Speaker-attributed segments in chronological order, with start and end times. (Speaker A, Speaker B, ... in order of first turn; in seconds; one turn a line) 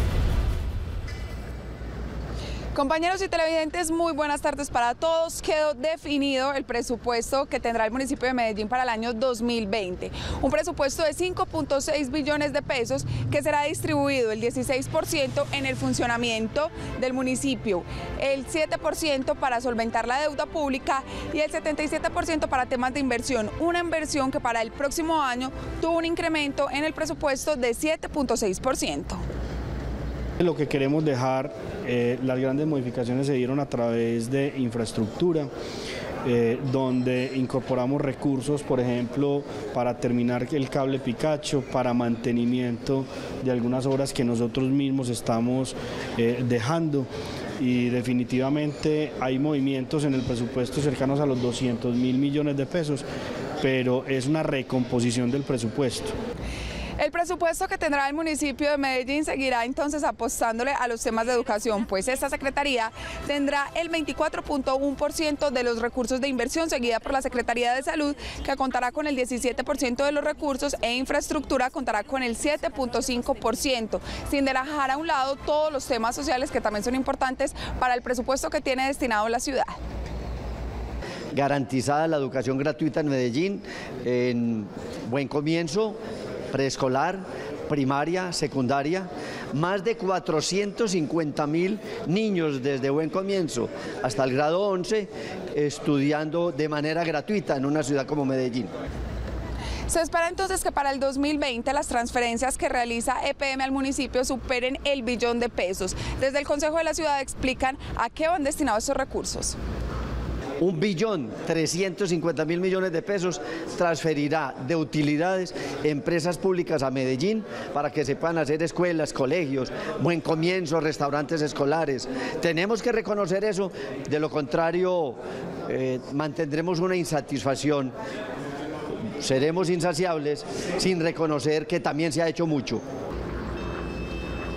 Speaker A: 2.7-29.2
Speaker B: 30.4-35.5
Speaker B: 36.2-47.1
Speaker B: 47.6-53.0
Speaker B: 53.6-56.1
Speaker A: 57.0-79.8
Speaker C: 81.3-86.0
Speaker C: 86.5-98.7
Speaker A: 99.9-109.6
Speaker C: 110.6-127.9
Speaker C: 129.2-132.8